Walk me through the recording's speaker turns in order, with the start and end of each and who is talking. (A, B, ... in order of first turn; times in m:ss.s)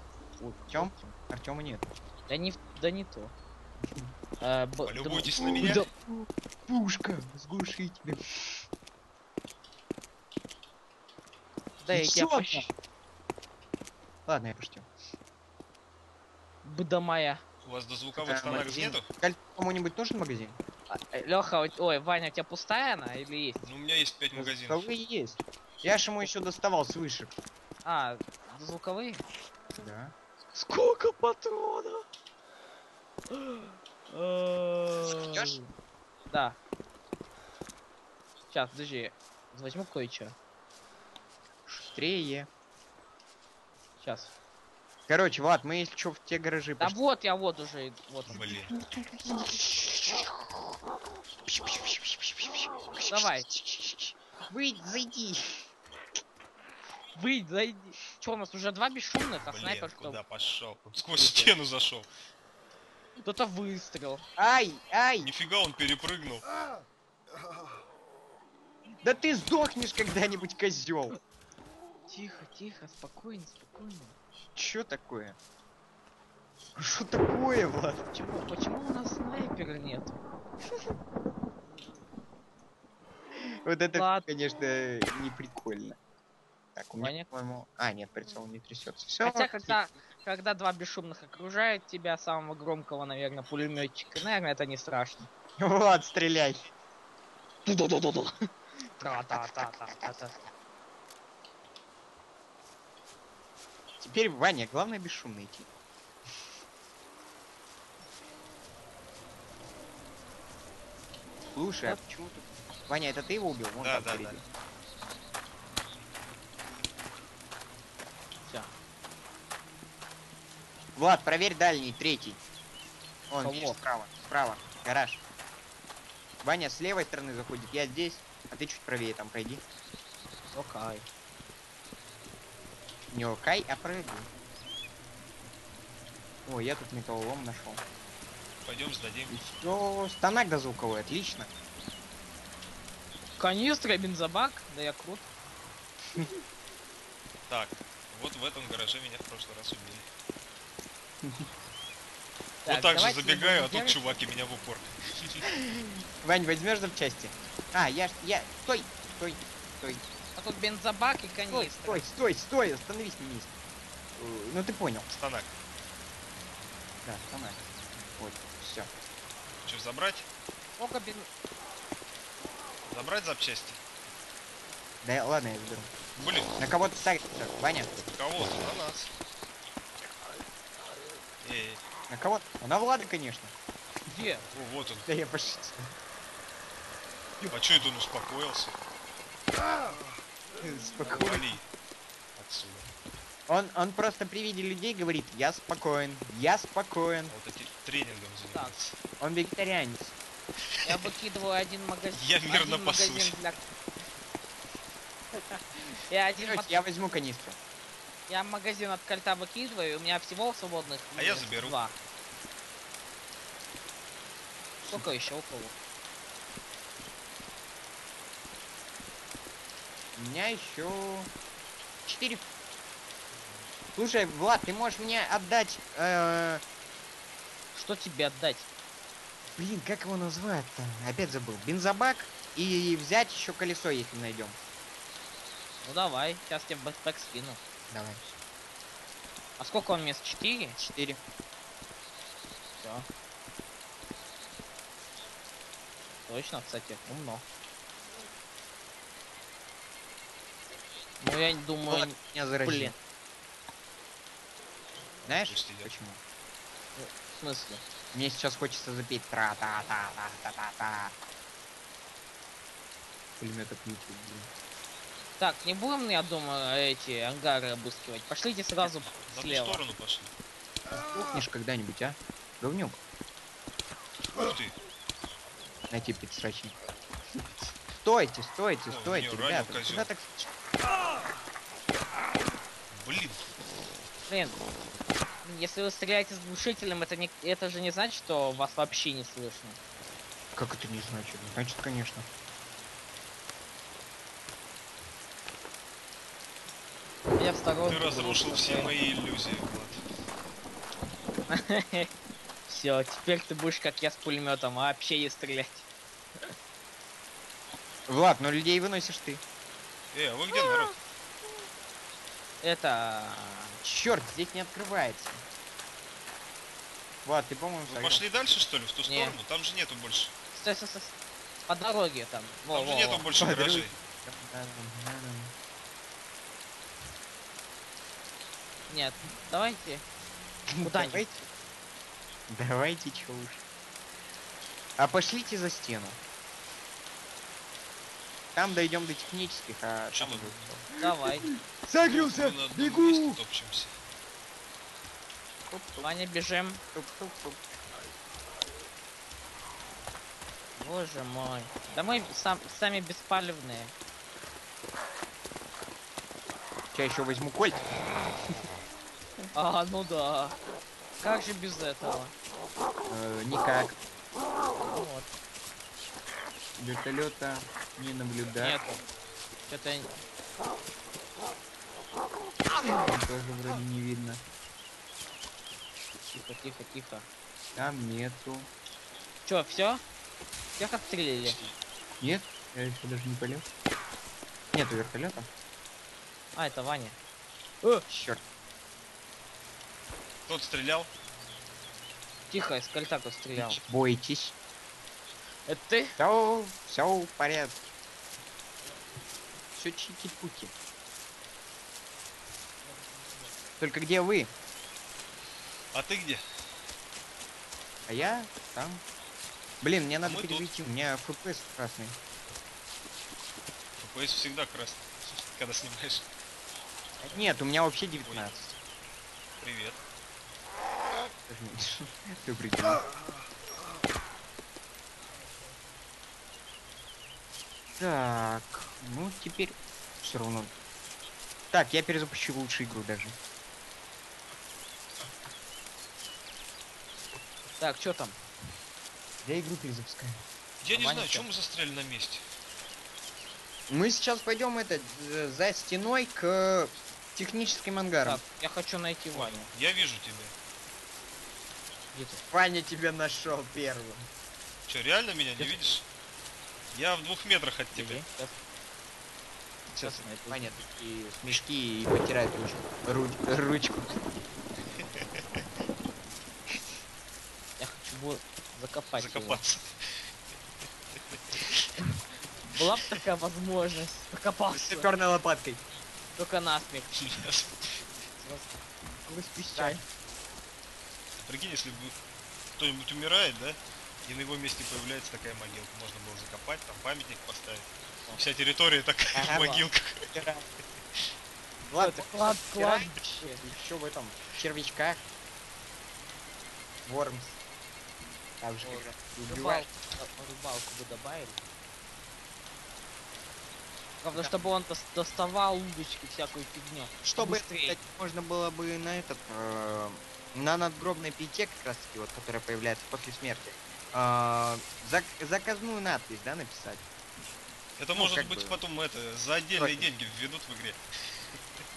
0:00.4-0:01.1 A
0:00.7-0:01.9 B
0:02.3-0:03.3 A
0:03.8-0:04.1 B
0:04.4-0:05.9 A
0:04.8-0:05.8 C
0:05.4-0:08.6 B
0:11.8-0:12.7 A
0:11.9-0:12.7 B
0:14.3-0:14.9 B
0:16.6-0:17.4 A
0:17.6-0:19.0 C
0:18.2-0:20.6 B
0:20.9-0:23.6 A
0:23.6-0:24.9 C
0:24.3-0:27.3 B
0:27.8-0:29.2 A
0:29.8-0:30.1 B
0:30.5-0:32.0 A
0:33.3-0:35.7 A
0:35.0-0:35.5 B
0:36.3-0:36.6 A
0:38.5-0:40.3 A
0:41.7-0:42.5 B
0:44.0-0:44.3 A
0:45.1-0:47.0 B
0:46.8-0:48.4 A
0:48.3-0:48.7 C
0:48.3-0:50.6 B
0:51.5-0:55.6 B
0:53.1-0:53.5 A
0:57.1-1:00.2 A
0:59.4-1:02.1 C
1:01.2-1:01.5 B
1:03.2-1:04.2 A
1:04.4-1:05.3 B
1:05.2-1:06.4 C
1:09.0-1:11.2 B
1:12.1-1:14.1 A
1:14.6-1:15.4 B
1:16.8-1:18.0 B
1:18.1-1:20.2 A
1:23.4-1:26.0 B
1:23.9-1:24.3 A
1:26.8-1:29.8 B
1:27.0-1:27.3 A
1:29.2-1:35.3 A
1:35.6-1:36.7 B
1:37.6-1:38.3 A
1:39.0-1:40.3 A
1:44.0-1:45.7 B
1:51.5-1:54.4 B
1:53.8-1:54.4 C
2:01.0-2:02.4 B
2:03.3-2:05.2 B
2:03.4-2:03.8 A
2:06.4-2:09.6 B
2:10.5-2:11.0 A
2:13.1-2:14.3 B
2:16.4-2:17.8 B
2:18.6-2:19.3 C
2:19.3-2:21.5 B
2:23.4-2:25.3 A
2:27.5-2:30.0 C
2:31.2-2:31.5 B
2:32.6-2:34.0 A
2:32.6-2:35.4 C
2:35.4-2:40.0 B
2:40.4-2:42.0 A
2:41.5-2:43.6 B
2:44.2-2:45.0 B
2:45.1-2:45.5 C
2:47.0-2:48.9 B
2:49.6-2:50.3 C
2:50.8-2:51.3 A
2:52.8-2:53.8 C
2:55.0-2:55.9 B
2:56.2-2:56.6 C
2:56.6-2:57.9 B
2:58.0-2:59.1 C
3:01.4-3:01.8 C
3:02.1-3:03.5 B
3:04.1-3:04.4 A
3:04.5-3:05.1 C
3:05.0-3:05.9 B
3:07.5-3:08.8 C
3:10.6-3:11.5 B
3:11.0-3:11.6 C
3:12.4-3:12.9 C
3:13.5-3:17.3 B
3:17.3-3:19.0 C
3:19.2-3:20.2 B
3:20.8-3:23.6 A
3:22.1-3:23.4 C
3:25.3-3:26.8 A
3:26.3-3:27.6 B
3:28.3-3:32.0 A
3:31.1-3:31.8 C
3:34.8-3:35.2 B
3:34.9-3:35.7 A
3:40.1-3:41.3 B
3:42.0-3:42.4 B
3:43.9-3:46.6 B
3:47.7-3:48.7 A
3:49.5-3:54.6 B
3:55.8-3:57.6 A
3:57.9-3:58.3 B
3:59.6-4:00.8 A
4:00.8-4:01.2 B
4:02.8-4:03.1 A
4:06.3-4:07.4 A
4:11.2-4:12.9 A
4:11.9-4:13.0 B
4:15.2-4:16.2 B
4:15.4-4:15.9 C
4:17.0-4:17.8 A
4:18.1-4:21.1 B
4:23.4-4:24.5 B
4:25.4-4:29.8 A
4:29.1-4:30.3 C
4:30.9-4:33.0 B
4:34.3-4:34.7 C
4:35.9-4:36.7 B
4:37.4-4:37.8 C
4:38.0-4:40.5 B
4:38.9-4:40.1 C
4:42.9-4:43.5 C
4:44.3-4:44.6 A
4:45.4-4:49.8 A
4:50.6-4:52.2 B
4:57.3-4:58.9 A
4:57.8-5:00.0 C
5:01.5-5:02.1 A
5:02.7-5:06.5 A
5:08.1-5:09.4 B
5:10.1-5:11.0 C
5:12.6-5:13.8 A
5:13.8-5:15.4 B
5:17.2-5:18.2 B
5:17.9-5:20.3 C
5:19.0-5:19.4 A
5:20.5-5:21.1 A
5:21.7-5:23.2 A
5:22.7-5:23.9 C
5:23.4-5:25.5 B
5:28.9-5:30.0 A
5:30.7-5:31.5 B
5:30.8-5:31.2 A
5:32.5-5:33.6 B
5:35.0-5:36.2 B
5:38.5-5:43.4 B
5:40.1-5:40.8 C
5:41.0-5:41.5 A
5:42.0-5:43.9 C
5:45.7-5:46.1 B
5:46.0-5:46.8 A
5:46.9-5:47.6 B
5:50.8-5:53.9 A
5:56.9-5:57.9 B
5:59.5-6:00.6 A
6:01.2-6:02.3 A
6:03.1-6:04.0 B
6:04.8-6:05.3 A
6:06.8-6:08.8 B
6:08.6-6:09.0 A
6:09.7-6:10.1 A
6:12.9-6:14.4 B
6:16.3-6:17.3 A
6:17.8-6:18.7 B
6:19.4-6:20.0 A
6:20.8-6:21.6 A
6:22.2-6:23.6 B
6:24.7-6:25.5 B
6:26.5-6:27.2 A
6:28.1-6:28.4 B
6:30.5-6:31.1 C
6:32.5-6:33.8 A
6:33.6-6:34.5 B
6:35.7-6:36.1 A
6:36.2-6:37.9 B
6:39.8-6:40.7 B
6:42.8-6:43.5 A
6:43.8-6:44.5 B
6:45.9-6:46.4 C
6:48.1-6:49.0 B
6:49.8-6:52.2 B
6:50.2-6:50.7 C
6:54.0-6:56.3 C
6:57.2-6:58.8 B
6:58.2-6:58.5 C
6:59.6-7:00.0 C
7:01.5-7:03.0 B
7:07.9-7:10.7 B
7:11.7-7:13.3 B
7:17.8-7:18.4 A
7:19.4-7:20.4 B
7:20.8-7:22.4 C
7:21.0-7:21.4 B
7:23.9-7:28.4 B
7:28.2-7:29.7 A
7:29.3-7:30.5 C
7:32.1-7:32.4 A
7:32.5-7:34.3 B
7:34.9-7:36.0 C
7:36.9-7:38.2 C
7:37.9-7:38.5 A
7:39.9-7:44.2 B
7:40.0-7:40.6 A
7:45.0-7:45.6 C
7:47.8-7:49.6 A
7:49.1-7:49.9 C
7:52.7-7:55.1 A
7:54.7-7:55.8 B
7:56.4-7:57.5 A
7:57.1-7:58.0 C
7:58.4-8:00.0 A
7:59.7-8:00.0 B
8:01.4-8:02.1 C
8:02.8-8:10.3 C
8:09.3-8:10.6 B
8:11.9-8:15.2 B
8:12.0-8:13.6 A
8:17.0-8:17.6 B
8:18.6-8:19.9 B
8:18.8-8:21.6 A
8:24.2-8:28.0 A
8:27.2-8:37.0 B
8:38.0-8:41.0 C
8:38.1-8:38.8 B
8:39.7-8:40.1 B